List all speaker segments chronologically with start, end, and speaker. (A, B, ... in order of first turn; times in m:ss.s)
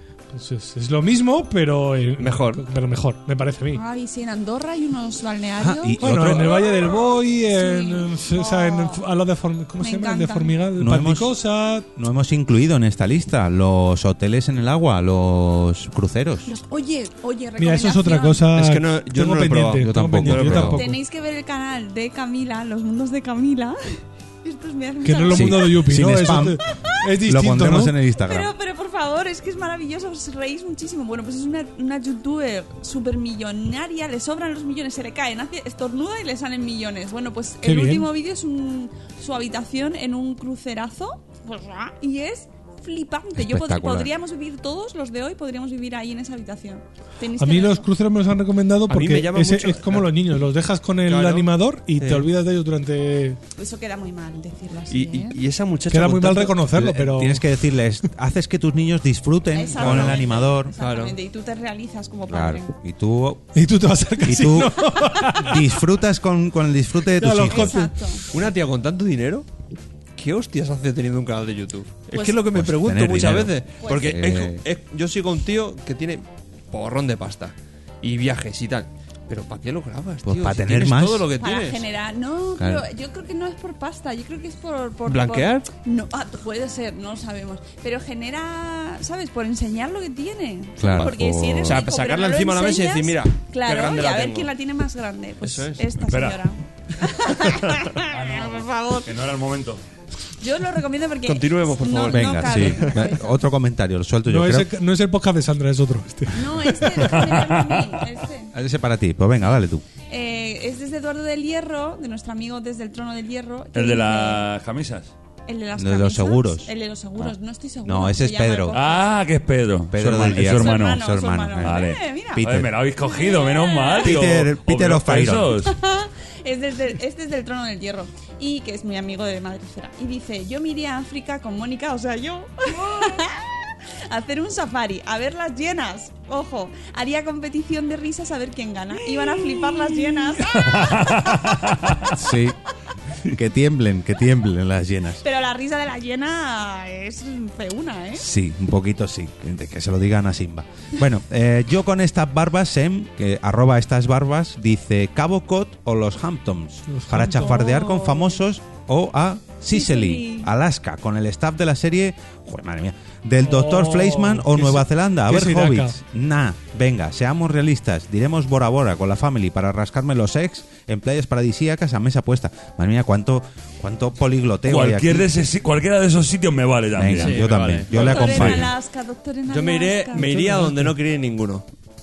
0:00.3-0:03.8 A
0:02.2-0:02.6 B
0:03.7-0:09.0 C
0:05.6-0:06.8 D
0:06.0-0:11.8 A
0:09.8-0:10.6 C
0:10.8-0:11.3 D
0:11.9-0:16.5 D
0:16.4-0:18.4 C
0:17.6-0:21.0 A
0:18.5-0:20.8 B
0:19.8-0:20.8 D
0:20.7-0:25.9 C
0:25.0-0:28.0 A
0:25.3-0:26.6 D
0:27.2-0:28.5 D
0:28.1-0:47.9 C
0:37.6-0:38.1 A
0:43.3-0:44.1 D
0:47.4-0:53.4 A
0:48.9-0:50.1 B
0:51.0-0:52.3 B
0:53.5-0:55.4 C
0:54.9-0:56.6 B
0:55.9-0:57.4 A
0:56.7-1:00.7 D
0:59.5-1:02.7 C
0:59.8-1:00.2 B
1:00.8-1:01.2 B
1:02.3-1:03.5 D
1:03.5-1:05.6 A
1:04.2-1:07.9 D
1:07.2-1:07.9 A
1:07.4-1:08.2 C
1:08.3-1:09.5 B
1:10.2-1:21.8 B
1:12.1-1:12.4 C
1:12.5-1:14.6 D
1:13.8-1:14.2 C
1:20.2-1:21.3 D
1:21.4-1:39.1 C
1:22.6-1:22.9 D
1:25.0-1:25.6 B
1:30.8-1:31.8 D
1:31.6-1:34.5 B
1:35.4-1:35.8 B
1:36.0-1:36.4 E
1:38.1-1:39.8 E
1:40.4-1:43.4 C
1:41.2-1:43.0 B
1:42.1-1:44.7 D
1:44.3-1:47.2 A
1:46.3-1:48.5 C
1:47.0-1:47.9 E
1:48.5-1:49.8 D
1:50.1-1:54.5 C
1:53.7-1:55.1 E
1:55.5-1:59.1 C
1:55.7-1:57.3 D
1:57.8-1:58.8 D
1:58.7-2:05.7 E
1:59.9-2:02.7 D
2:00.3-2:02.4 C
2:03.0-2:04.2 C
2:04.0-2:05.6 D
2:05.6-2:21.6 C
2:20.4-2:22.1 E
2:22.1-2:22.6 D
2:23.2-2:25.2 D
2:25.2-2:28.2 C
2:28.1-2:55.3 D
2:36.9-2:37.6 A
2:37.4-2:38.4 C
2:39.7-2:40.5 C
2:43.4-2:46.0 A
2:54.7-2:57.5 E
2:56.9-2:58.7 D
2:57.1-2:58.5 B
2:57.9-3:00.2 C
2:58.1-2:58.6 E
2:59.5-3:01.6 B
3:00.1-3:00.9 A